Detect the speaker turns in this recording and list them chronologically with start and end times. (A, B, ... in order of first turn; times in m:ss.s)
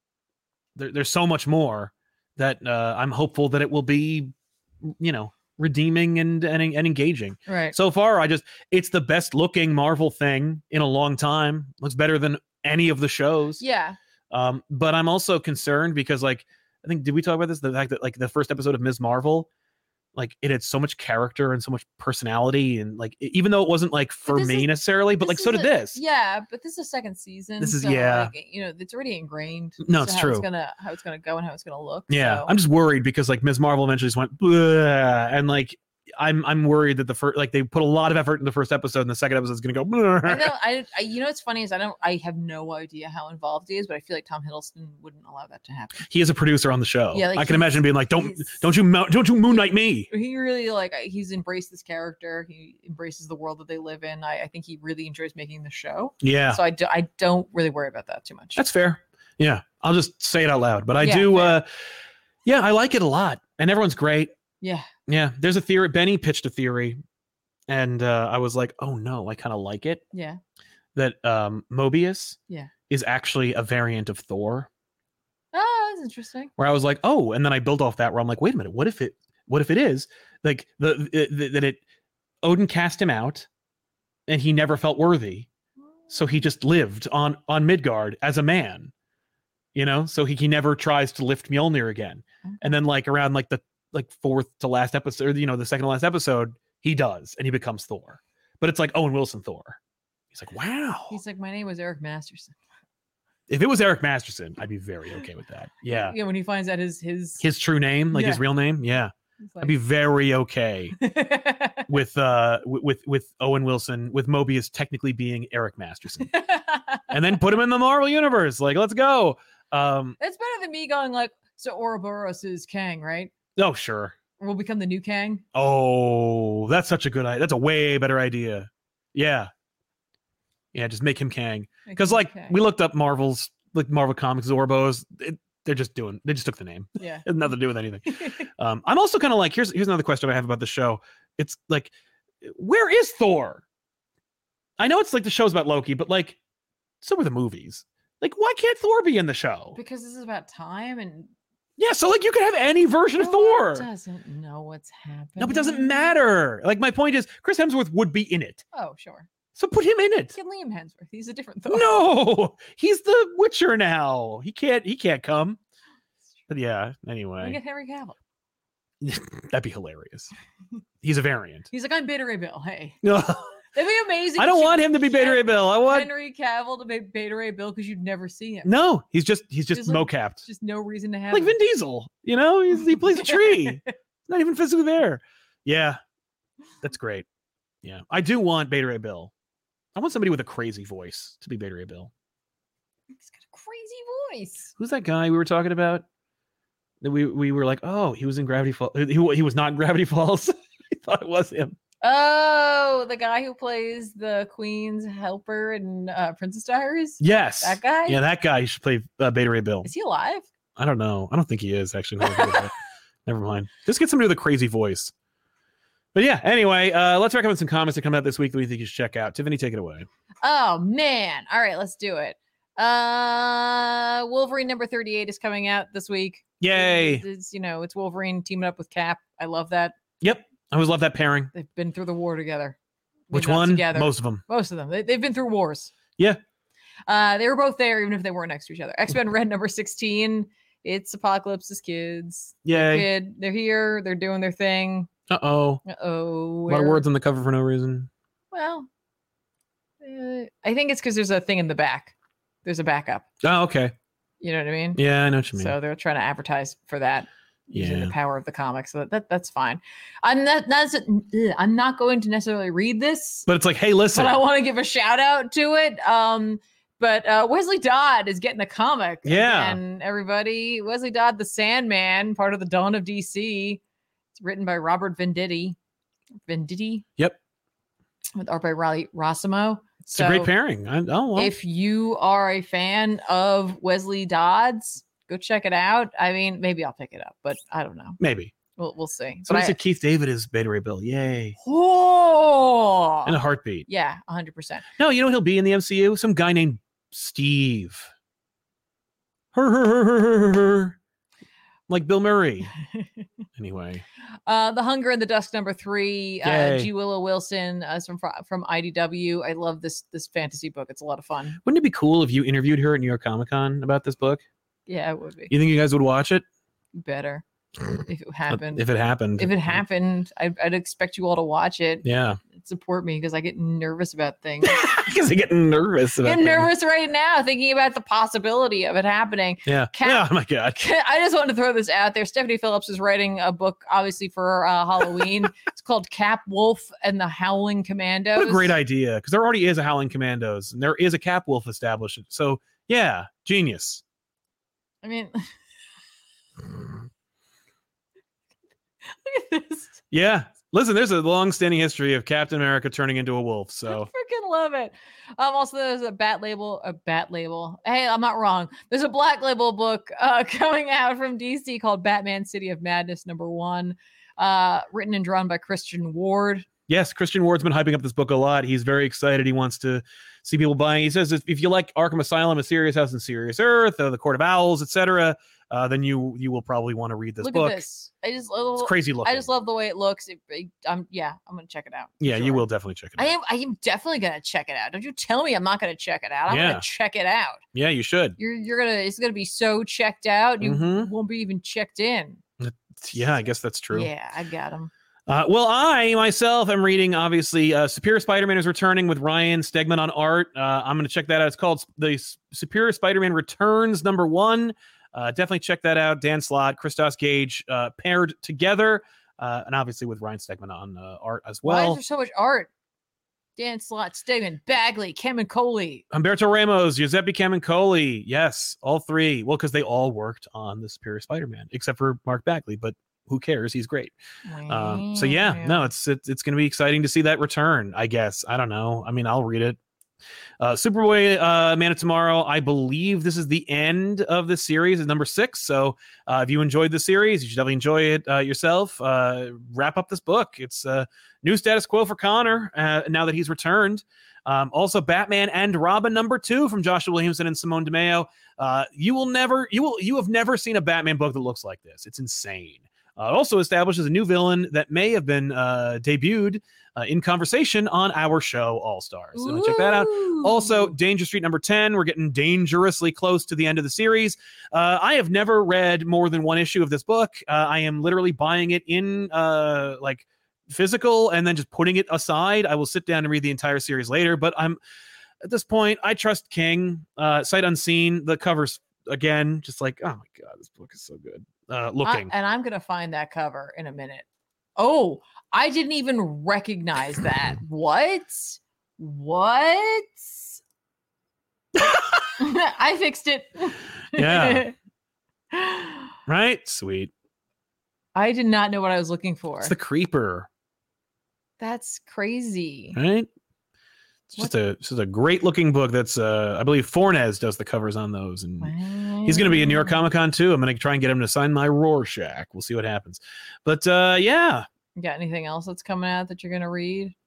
0:00.8-0:04.3 A
0:04.8-0:13.6 A
0:07.5-0:07.8 B
0:13.6-0:14.0 B
0:14.3-0:19.5 A
0:20.1-0:26.0 A
0:24.3-0:24.7 B
0:25.2-0:32.5 B
0:27.6-0:28.3 A
0:29.8-0:30.4 A
0:32.1-0:40.5 A
0:40.2-0:46.1 B
0:46.1-0:50.1 A
0:47.1-0:48.6 B
0:50.1-0:58.6 B
0:56.2-0:56.6 A
0:58.6-1:01.6 A
1:01.0-1:01.6 B
1:02.4-1:04.3 A
1:04.6-1:04.9 B
1:05.1-1:07.0 A
1:07.7-1:10.0 A
1:10.1-1:10.4 B
1:10.9-1:12.4 A
1:12.9-1:14.7 A
1:15.5-1:16.5 B
1:16.6-1:21.8 A
1:22.4-1:23.5 A
1:24.3-1:25.5 A
1:26.1-1:28.9 A
1:29.7-1:39.8 A
1:32.5-1:32.8 B
1:40.3-1:41.2 A
1:41.1-1:42.6 B
1:43.5-1:46.2 A
1:45.9-1:47.4 B
1:47.4-1:51.0 A
1:48.1-1:48.4 B
1:49.5-1:49.8 B
1:51.0-1:51.9 B
1:51.9-1:56.3 A
1:56.2-1:57.1 B
1:57.1-2:00.2 A
2:00.2-2:03.3 B
2:03.6-2:04.2 A
2:04.4-2:05.4 B
2:05.5-2:09.5 A
2:10.7-2:23.6 A
2:11.8-2:12.6 B
2:17.0-2:17.3 B
2:18.1-2:18.5 B
2:24.8-2:26.4 A
2:27.0-2:29.8 A
2:29.7-2:31.3 B
2:31.8-2:33.8 A
2:33.2-2:36.1 B
2:35.4-2:38.6 A
2:38.7-2:39.3 B
2:39.5-2:40.3 A
2:40.3-2:42.0 B
2:41.7-2:45.6 A
2:46.5-2:47.6 A
2:47.4-2:48.2 B
2:49.0-2:50.3 A
2:51.0-2:51.7 A
2:51.7-2:53.0 B
2:53.0-2:53.6 A
2:53.7-2:58.7 B
2:54.4-2:56.1 A
2:58.6-3:00.4 A
2:59.7-3:01.6 B
3:01.3-3:06.0 A
3:02.8-3:03.8 B
3:06.8-3:07.2 A
3:07.8-3:09.3 A
3:10.0-3:12.1 A
3:13.2-3:14.7 B
3:14.8-3:16.0 A
3:17.0-3:21.8 A
3:22.0-3:28.2 B
3:27.2-3:29.9 A
3:29.8-3:30.5 B
3:30.8-3:32.7 A
3:33.2-3:35.1 A
3:36.1-3:40.1 A
3:40.4-3:49.9 B
3:46.6-3:47.2 A
3:50.2-3:51.5 A
3:51.5-3:52.8 B
3:53.3-3:55.9 B
3:53.3-3:54.4 A
3:57.1-4:05.1 B
4:02.6-4:03.1 A
4:05.3-4:05.8 A
4:05.8-4:07.0 B
4:06.7-4:08.1 A
4:08.5-4:08.9 B
4:10.0-4:13.2 B
4:13.4-4:13.9 A
4:14.4-4:15.0 B
4:15.0-4:15.7 A
4:15.5-4:23.5 B
4:17.7-4:18.1 A
4:23.5-4:24.4 A
4:24.1-4:33.8 B
4:29.2-4:29.8 A
4:34.3-4:35.8 B
4:36.5-4:37.0 B
4:38.4-4:40.5 B
4:40.1-4:41.5 A
4:41.4-4:48.2 B
4:48.2-4:48.5 A
4:48.8-4:49.8 B
4:49.4-4:51.6 A
4:51.6-4:54.8 B
4:53.2-4:53.8 A
4:55.0-4:58.1 A
4:59.5-5:01.0 A
5:01.9-5:02.7 A
5:02.8-5:03.2 B
5:03.6-5:04.0 A
5:04.4-5:11.6 B
5:06.4-5:06.9 A
5:11.6-5:14.4 A
5:14.9-5:15.5 B
5:15.5-5:16.4 A
5:16.9-5:17.4 B
5:18.0-5:18.9 B
5:18.5-5:19.8 A
5:19.4-5:25.0 B
5:22.0-5:22.4 A
5:24.6-5:26.7 A
5:26.2-5:38.8 B
5:29.6-5:30.8 A
5:38.4-5:44.0 A
5:45.0-5:45.5 B
5:49.1-5:50.0 B
5:50.1-5:54.1 A
5:53.9-6:06.7 B
6:06.9-6:17.8 A
6:17.4-6:22.6 B
6:18.8-6:19.5 A
6:22.2-6:23.3 A
6:23.2-6:27.6 B
6:26.5-6:26.8 A
6:27.7-6:28.4 A
6:28.4-6:32.4 B
6:30.6-6:31.1 A
6:32.6-6:34.1 A
6:33.9-6:34.9 B
6:35.3-6:52.0 A
6:51.6-6:52.7 B
6:53.6-6:56.0 B
6:56.1-7:04.1 A
7:04.4-7:05.9 B
7:04.7-7:09.8 A
7:10.6-7:54.8 A
7:39.4-7:40.9 B
7:55.4-8:02.3 A
8:02.0-8:04.2 B
8:04.8-8:10.6 B
8:11.8-8:12.2 A
8:12.4-8:14.7 B
8:14.1-8:14.7 A
8:15.5-8:16.1 B
8:16.3-8:17.1 A
8:18.1-8:19.7 B
8:19.6-8:20.5 A
8:21.6-8:23.0 B
8:22.9-8:23.3 A
8:24.3-8:28.7 A
8:28.6-8:30.0 B
8:29.2-8:34.6 A
8:35.0-8:37.1 B